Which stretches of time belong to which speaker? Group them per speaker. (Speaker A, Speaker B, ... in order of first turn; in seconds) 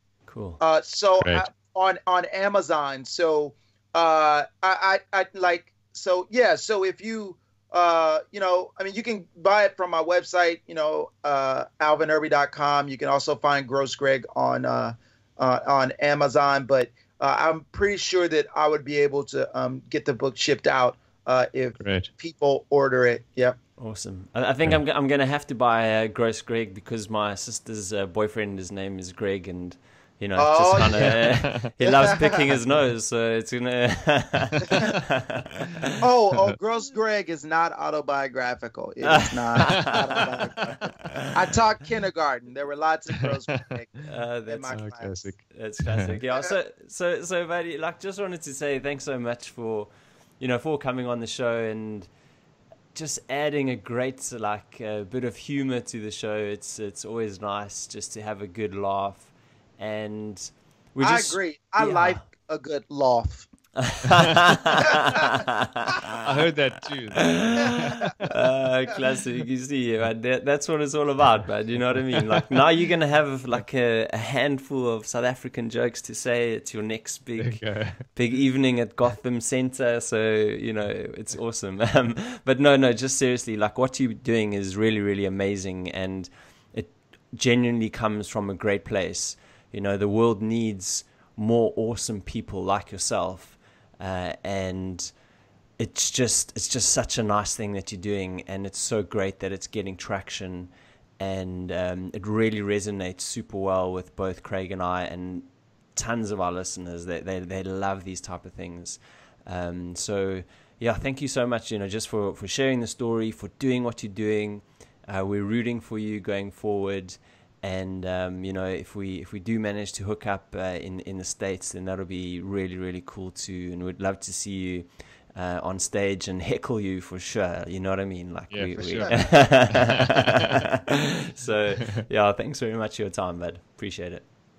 Speaker A: 0.3-0.6, 23.8-35.9, 39.0-41.3, 44.0-44.8, 45.4-52.1, 52.9-62.2, 63.8-66.2, 67.2-95.2, 95.8-134.2
Speaker B: 0.6-23.6, 30.4-32.6, 36.0-45.4, 61.0-63.5, 64.8-65.2, 67.6-68.1, 129.0-129.4
Speaker C: 1.2-1.4, 21.8-22.1, 31.0-31.7, 44.7-45.4, 66.2-68.3, 77.4-78.0, 128.5-130.4